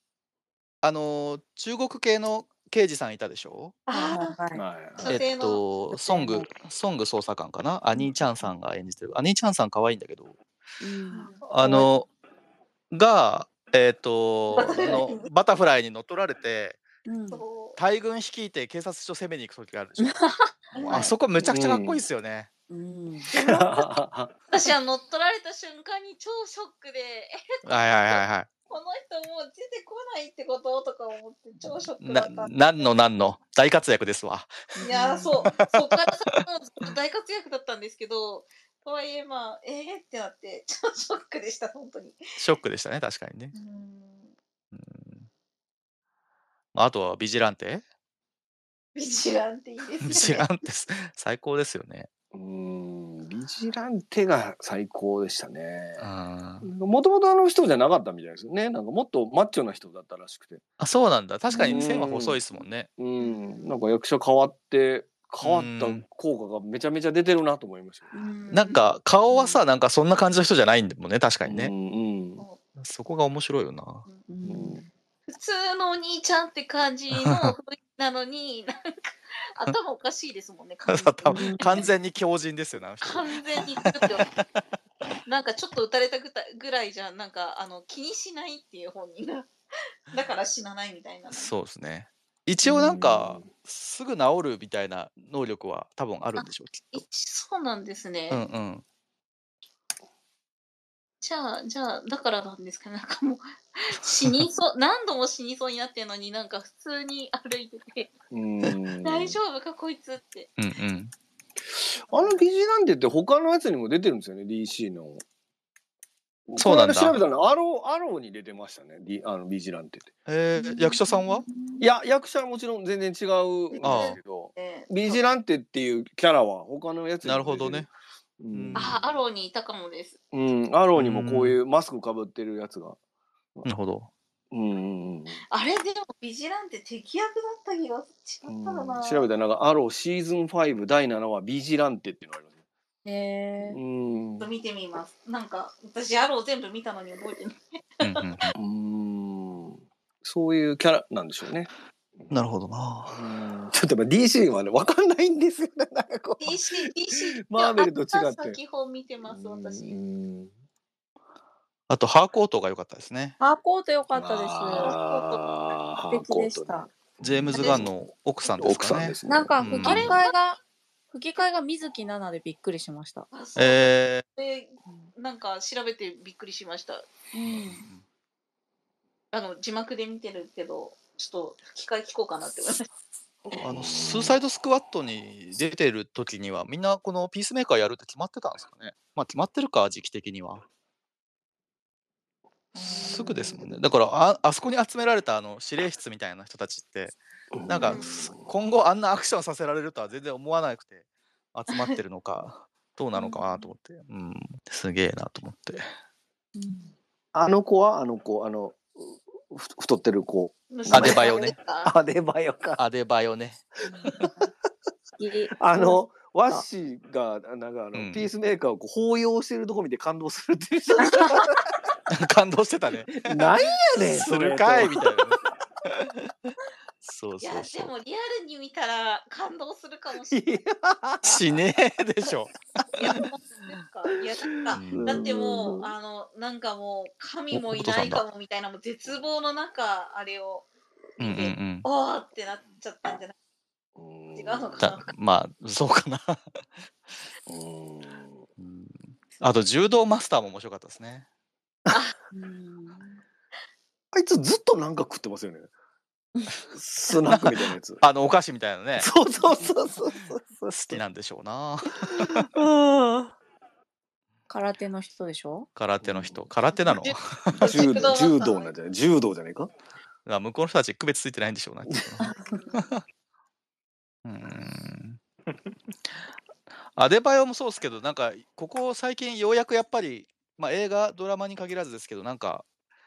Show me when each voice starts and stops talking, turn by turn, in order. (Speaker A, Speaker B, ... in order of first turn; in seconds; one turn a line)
Speaker A: 0.8-3.8
Speaker B: 3.9-4.3
Speaker C: 3.9-4.6
Speaker D: 4.5-5.1
Speaker B: 5.0-5.6
Speaker A: 5.0-10.4
Speaker C: 5.9-6.5
Speaker C: 10.8-11.9
Speaker B: 11.1-11.4
Speaker A: 11.4-12.1
Speaker A: 12.9-16.8
Speaker B: 14.5-15.3
Speaker C: 17.1-17.4
Speaker B: 17.3-17.8
Speaker A: 17.8-20.2
Speaker C: 20.0-20.9
Speaker B: 20.7-21.1
Speaker A: 20.8-22.5
Speaker D: 21.4-22.0
Speaker C: 22.7-23.3
Speaker D: 23.3-24.3
Speaker B: 23.3-23.7
Speaker B: 24.5-33.0
Speaker A: 27.6-28.5
Speaker A: 32.0-34.7
Speaker C: 34.8-35.4
Speaker B: 34.8-42.2
Speaker A: 35.4-35.9
Speaker A: 42.4-43.5
Speaker B: 43.5-44.3
Speaker A: 44.7-45.3
Speaker A: 46.7-47.8
Speaker B: 48.9-50.5
Speaker A: 50.0-52.1
Speaker D: 52.3-56.1
Speaker A: 56.0-56.7
Speaker D: 56.6-60.6
Speaker A: 60.8-62.9
Speaker C: 61.5-61.8
Speaker D: 61.6-62.4
Speaker D: 63.0-68.1
Speaker B: 63.2-63.8
Speaker A: 65.4-66.0
Speaker B: 68.1-68.8
Speaker A: 68.5-71.7
Speaker D: 69.3-69.6
Speaker D: 71.4-72.4
Speaker A: 72.8-74.1
Speaker C: 74.3-74.8
Speaker D: 74.4-74.8
Speaker B: 75.3-81.9
Speaker A: 77.2-77.5
Speaker A: 80.8-84.4
Speaker C: 81.2-81.8
Speaker B: 83.0-84.2
Speaker B: 85.2-89.5
Speaker B: 90.1-91.5
Speaker A: 91.3-97.0
Speaker D: 92.6-93.5
Speaker B: 96.4-98.4
Speaker A: 98.3-98.8
Speaker B: 101.2-108.1
Speaker D: 108.3-109.4
Speaker B: 109.0-110.5
Speaker A: 110.6-111.1
Speaker D: 112.0-115.2
Speaker B: 112.1-112.4
Speaker D: 116.5-120.1
Speaker A: 116.6-117.2
Speaker A: 120.3-121.4
Speaker C: 120.5-121.8
Speaker D: 121.8-129.0
Speaker B: 123.7-125.2
Speaker A: 123.8-124.2
Speaker A: 127.2-127.9
Speaker A: 128.5-129.0
Speaker B: 128.7-130.2
Speaker D: 130.3-133.0
Speaker A: 130.9-131.6
Speaker A: 133.6-134.1
Speaker D: 134.5-135.4
Speaker B: 135.5-139.3
Speaker D: 138.4-142.5
Speaker C: 143.0-143.8
Speaker D: 143.6-144.5
Speaker B: 144.4-148.3
Speaker A: 148.0-148.5
Speaker D: 148.6-152.4
Speaker A: 152.3-153.2
Speaker D: 153.1-158.6
Speaker B: 156.4-159.9
Speaker D: 159.2-160.5
Speaker A: 161.9-163.3
Speaker C: 163.4-165.4
Speaker D: 164.1-166.9
Speaker B: 164.9-165.1
Speaker C: 166.1-167.8
Speaker A: 167.2-170.2
Speaker D: 167.5-167.9
Speaker D: 168.4-170.2
Speaker C: 169.2-170.6
Speaker C: 171.1-173.3
Speaker B: 173.3-177.1
Speaker A: 173.6-174.2
Speaker C: 177.3-177.8
Speaker A: 177.4-178.0
Speaker B: 179.3-182.9
Speaker D: 183.5-184.4
Speaker A: 183.6-190.7
Speaker B: 192.8-193.3
Speaker C: 192.8-193.6
Speaker A: 193.0-201.0
Speaker D: 197.5-198.5
Speaker B: 197.8-198.1
Speaker A: 201.5-205.8
Speaker B: 201.7-202.0
Speaker C: 203.1-203.4
Speaker C: 206.5-206.9
Speaker D: 207.3-211.3
Speaker B: 210.7-211.9
Speaker A: 210.9-211.5
Speaker D: 211.8-212.8
Speaker A: 212.8-213.6
Speaker C: 213.8-214.5
Speaker D: 214.0-214.2
Speaker C: 215.1-216.6
Speaker D: 215.6-221.5
Speaker A: 217.9-218.3
Speaker B: 221.1-221.4
Speaker A: 222.1-226.2
Speaker D: 223.1-225.1
Speaker A: 227.0-227.9
Speaker B: 227.4-230.6
Speaker D: 230.3-231.6
Speaker A: 231.2-232.6
Speaker B: 232.9-240.7
Speaker D: 234.7-235.9
Speaker A: 234.7-235.2
Speaker A: 237.5-238.2
Speaker B: 241.2-243.3
Speaker A: 241.2-241.8
Speaker D: 244.0-244.8
Speaker B: 244.3-245.1
Speaker A: 244.8-246.4
Speaker D: 247.5-248.4
Speaker A: 248.6-251.2
Speaker C: 252.3-253.2
Speaker D: 254.1-255.7
Speaker C: 256.3-256.6
Speaker D: 256.7-258.0
Speaker A: 257.3-259.1
Speaker D: 258.9-261.0
Speaker C: 259.4-259.8
Speaker A: 260.6-262.5
Speaker D: 262.1-263.3
Speaker C: 264.5-265.7
Speaker A: 265.8-267.8
Speaker D: 266.0-266.4
Speaker D: 267.6-269.7
Speaker B: 267.6-268.7
Speaker A: 270.2-273.0
Speaker C: 272.2-272.5
Speaker B: 272.3-272.9
Speaker A: 274.2-275.2
Speaker A: 276.9-282.6